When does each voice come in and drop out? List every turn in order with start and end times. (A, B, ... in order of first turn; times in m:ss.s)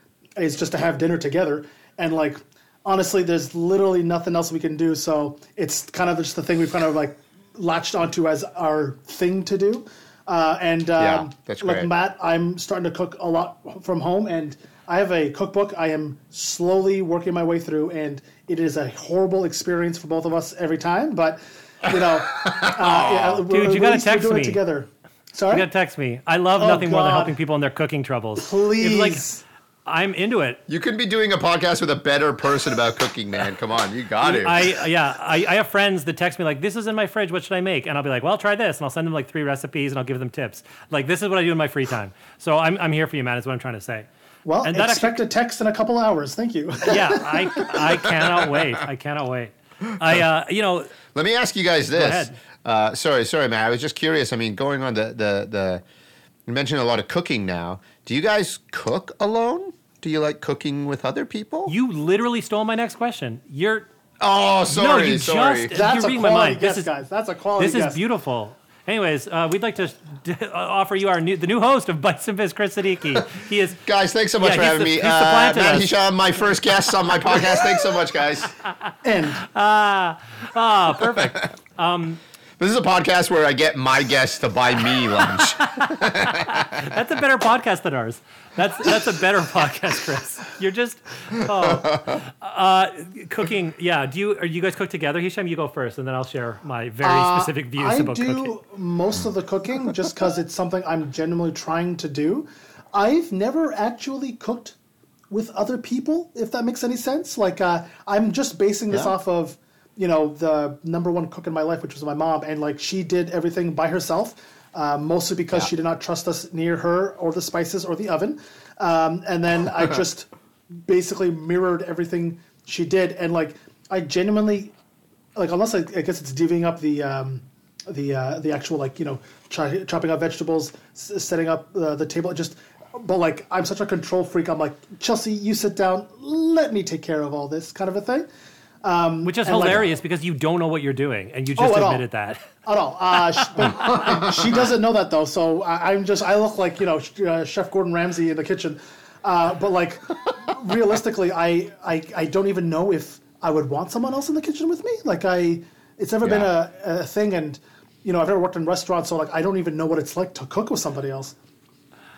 0:00.4-0:25.7 A
0:11.0-0:11.9 B
0:22.1-0:23.4 B
0:23.5-0:24.6 C
0:25.5-0:29.3 C
0:26.6-0:27.4 A
0:28.4-0:29.4 A
0:29.9-0:30.6 C
0:30.7-0:34.8 B
0:34.2-0:44.1 C
0:44.4-0:47.6 A
0:44.6-0:45.2 C
0:46.9-0:51.0 C
0:49.9-0:50.2 B
0:51.1-0:55.8 B
0:51.9-0:52.4 C
0:56.5-1:01.7 B
1:01.7-1:03.9 C
1:04.2-1:05.8 B
1:04.7-1:06.9 C
1:05.7-1:08.0 A
1:07.6-1:13.8 C
1:13.9-1:18.5 B
1:14.4-1:15.9 C
1:19.0-1:19.4 A
1:19.5-1:22.2 C
1:22.6-1:26.9 B
1:25.4-1:38.5 C
1:31.5-1:32.2 B
1:37.0-1:44.8 A
1:45.3-2:00.3 A
1:48.9-1:49.2 B
2:00.8-2:04.7 A
2:05.4-2:18.3 A
2:18.8-2:19.9 A
2:19.2-2:24.1 C
2:21.6-2:22.1 A
2:22.6-2:41.4 A
2:36.2-2:36.5 B